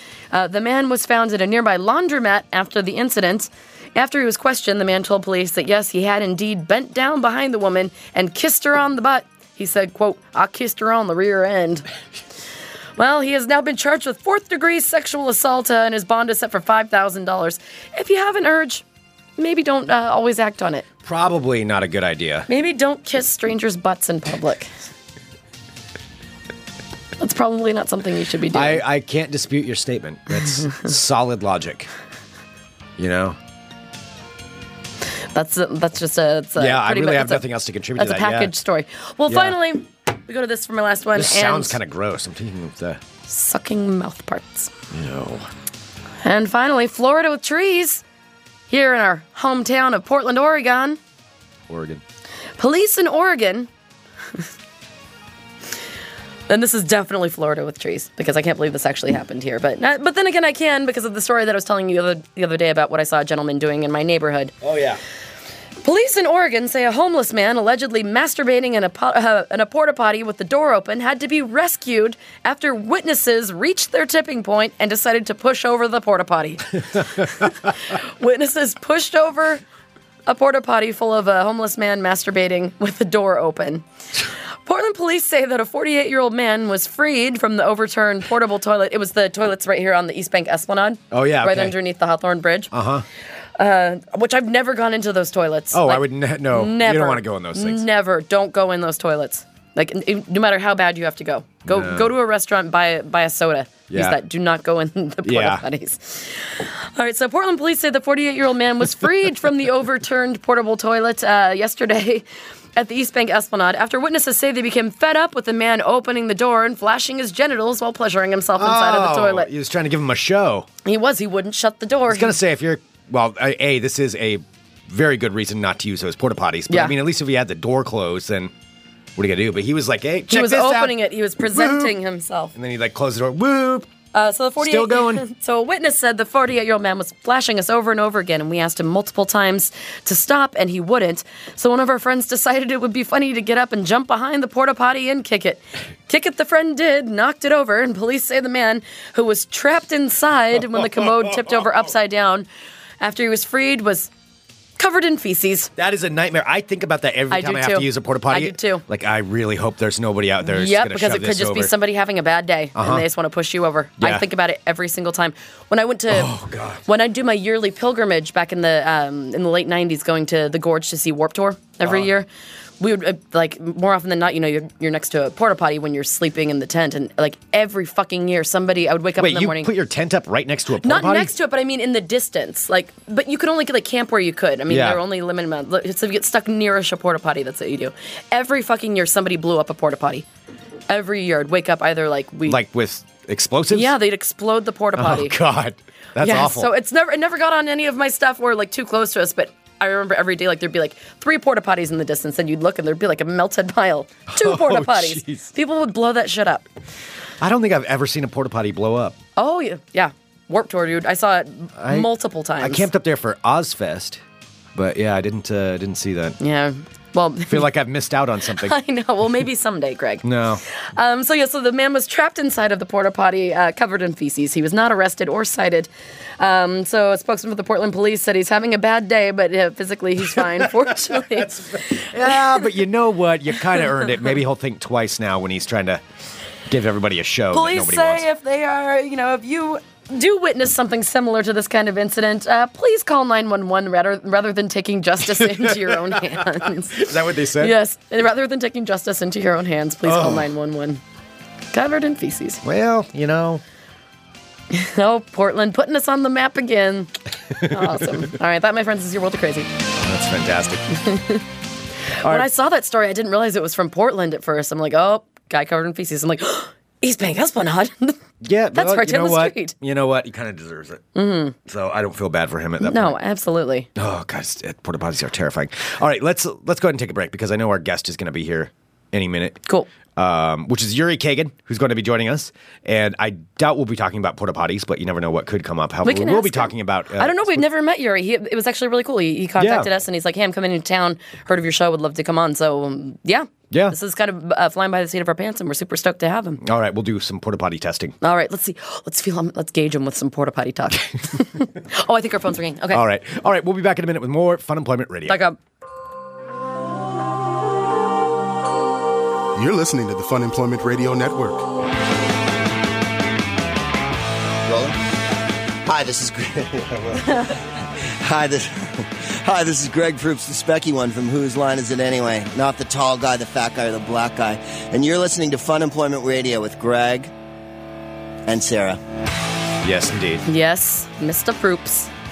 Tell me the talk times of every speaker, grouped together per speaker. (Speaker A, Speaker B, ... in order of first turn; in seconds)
Speaker A: 0.3-11.9, 13.0-18.8, 19.4-20.9, 22.5-24.7, 27.2-28.8, 35.3-37.5, 38.0-41.8, 43.3-44.7, 46.2-48.0, 48.7-51.0, 52.6-53.7, 56.5-64.5, 65.8-79.6, 80.3-83.8, 84.7-92.7, 93.6-119.5, 120.8-122.4, 126.7-127.0, 130.3-132.5, 134.1-152.5, 153.0-154.1, 154.8-155.7, 157.3-158.8, 160.4-166.3, 166.9-172.3, 172.8-179.7, 180.8-190.3, 190.9-192.6, 193.7-195.4, 196.2-206.7, 209.4-212.9, 216.4-217.7, 218.5-232.7, 237.5-251.0, 251.7-252.6, 254.7-259.7, 260.9-261.4, 262.2-268.2, 268.7-269.7, 271.1-271.6, 272.8-273.9, 286.0-296.6, 298.2-303.0, 305.3-305.6, 330.5-332.1
Speaker B: 21.0-22.5, 28.5-31.9, 33.0-33.4, 36.6-38.5, 39.3-39.5, 41.2-43.0, 44.9-45.5, 51.7-52.0, 64.6-65.0, 91.1-91.8, 92.7-93.0, 95.7-97.9, 101.7-102.1, 103.9-104.2, 105.2-105.6, 118.6-120.7, 122.1-128.5, 129.2-131.9, 132.6-133.9, 134.6-135.3, 155.8-161.7, 162.8-163.1, 166.1-166.8, 179.2-181.3, 184.7-185.0, 192.5-193.9, 195.0-196.7, 204.3-205.5, 207.4-209.2, 211.8-212.1, 212.6-214.2, 214.8-216.4, 217.5-218.8, 220.2-220.6, 231.3-236.0, 236.7-238.3, 245.4-246.2, 246.9-247.8, 250.1-250.5, 252.6-253.6, 260.0-260.9, 268.4-271.0, 271.7-273.1, 274.0-279.6, 280.2-287.6, 289.6-289.9, 293.7-294.0, 296.6-298.2, 302.9-305.4, 329.8-330.5
Speaker C: 309.6-311.6
Speaker D: 314.7-315.0, 315.9-327.3, 328.5-329.0